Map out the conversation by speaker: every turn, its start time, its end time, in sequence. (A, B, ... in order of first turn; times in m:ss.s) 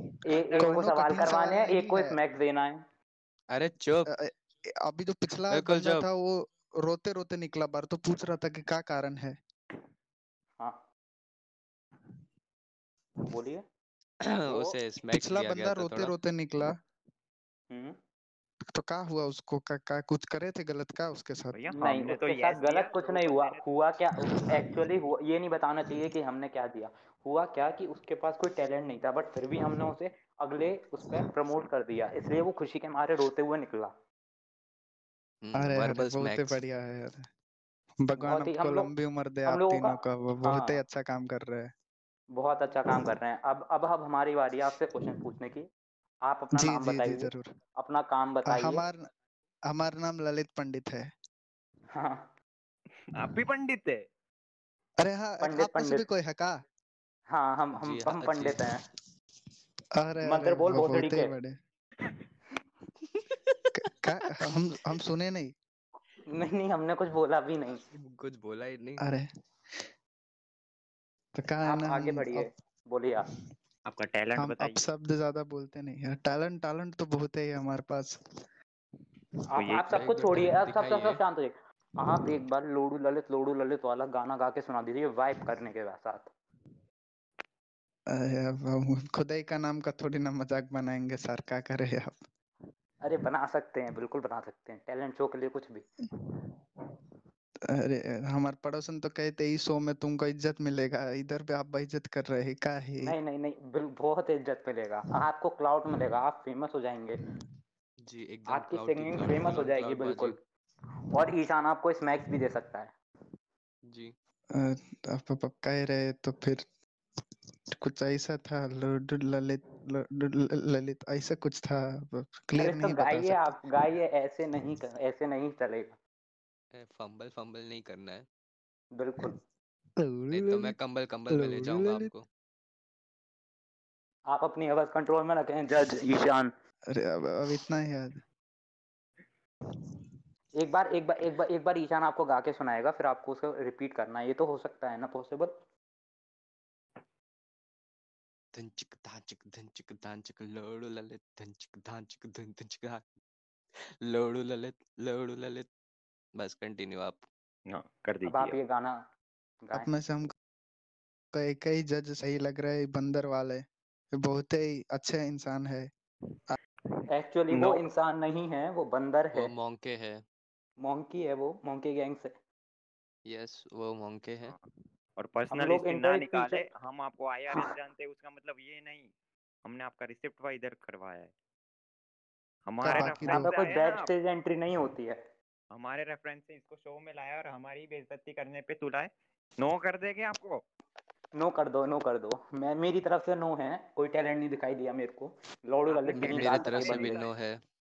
0:00.3-0:02.8 A
0:00.3-0:02.2 B
0:03.5-0:04.1 C
0:04.1-0:09.4 B
0:05.5-0:06.0 C
0:13.3-0:13.6 A
0:14.2-0:16.1 C
0:14.5-0:14.8 A
0:15.1-0:16.8 B
0:17.7-0:18.0 A
0:18.7-0:21.6 B
0:21.5-0:23.6 D
0:21.8-0:33.9 A
0:24.3-0:24.6 B
0:35.4-0:36.6 C
0:35.5-0:37.3 B
0:38.0-0:41.7 B
0:38.2-0:38.9 A
0:39.4-0:40.8 A
0:42.3-0:45.6 A
0:46.2-0:48.8 A
0:46.5-0:47.5 B
0:48.5-0:49.0 B
0:49.7-0:51.1 B
0:51.9-0:52.3 A
0:53.1-0:54.0 D
0:55.0-0:56.5 B
0:55.4-0:56.0 A
0:57.3-0:58.8 A
0:57.8-0:58.6 C
1:00.0-1:01.6 B
1:00.2-1:01.3 A
1:03.8-1:05.5 B
1:06.3-1:07.8 A
1:07.9-1:09.0 C
1:09.0-1:09.9 B
1:11.3-1:12.5 B
1:11.6-1:13.3 A
1:13.8-1:14.8 D
1:14.4-1:18.2 B
1:19.5-1:26.3 A
1:19.6-1:19.9 D
1:19.9-1:21.2 C
1:28.1-1:32.2 B
1:33.0-1:35.9 A
1:37.7-1:43.2 B
1:43.0-1:47.2 A
1:48.0-1:50.4 C
1:48.5-1:50.4 A
1:51.1-1:52.9 A
1:53.9-1:54.1 C
1:54.5-1:56.6 B
1:57.8-2:03.6 B
2:02.6-2:06.0 A
2:06.7-2:08.2 C
2:08.9-2:09.3 A
2:10.0-2:10.8 B
2:10.3-2:12.2 C
2:11.3-2:12.1 B
2:14.3-2:16.5 A
2:16.9-2:18.2 B
2:20.6-2:25.5 A
2:28.5-2:33.0 C
2:34.0-2:35.7 C
2:36.4-2:37.2 C
2:37.7-2:38.6 D
2:38.2-2:39.0 A
2:39.6-2:39.9 A
2:39.7-2:40.3 B
2:41.3-2:43.6 B
2:44.2-2:45.9 B
2:47.1-2:49.5 A
2:47.5-2:47.8 D
2:49.3-2:50.2 C
2:50.8-2:52.3 A
2:53.2-2:54.5 C
2:54.4-2:59.1 D
2:55.5-2:56.6 A
2:59.6-3:01.3 D
3:02.6-3:04.1 D
3:02.8-3:03.5 B
3:02.9-3:05.2 A
3:05.7-3:10.6 D
3:11.4-3:17.2 A
3:15.9-3:17.3 D
3:16.1-3:17.6 C